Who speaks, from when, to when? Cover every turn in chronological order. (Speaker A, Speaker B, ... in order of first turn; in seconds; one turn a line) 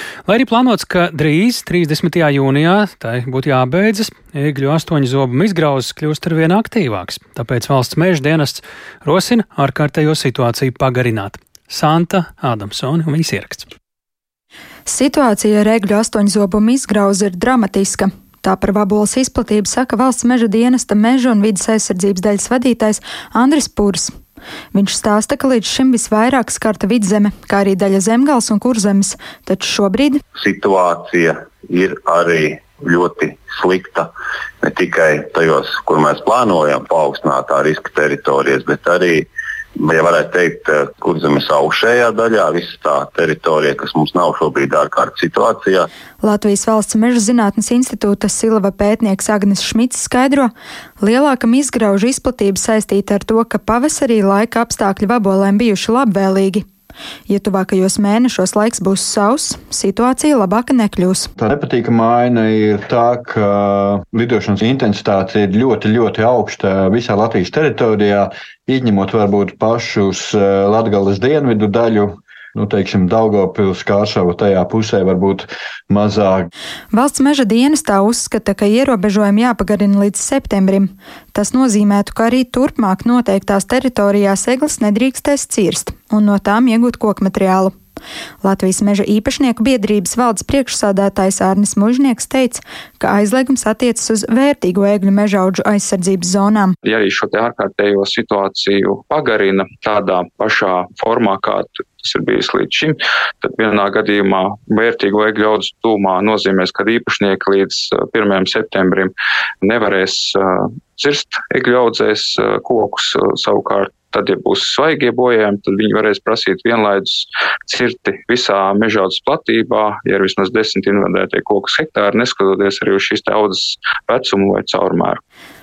Speaker A: 0.3-13.7
Speaker B: 14.9-24.1
Speaker B: 24.7-30.2
Speaker C: 30.4-34.1
Speaker C: 34.6-45.9
Speaker B: 46.2-56.6
Speaker B: 57.3-61.3
Speaker D: 61.4-76.5
Speaker B: 76.9-87.8
Speaker B: 88.4-96.8
Speaker E: 96.8-125.2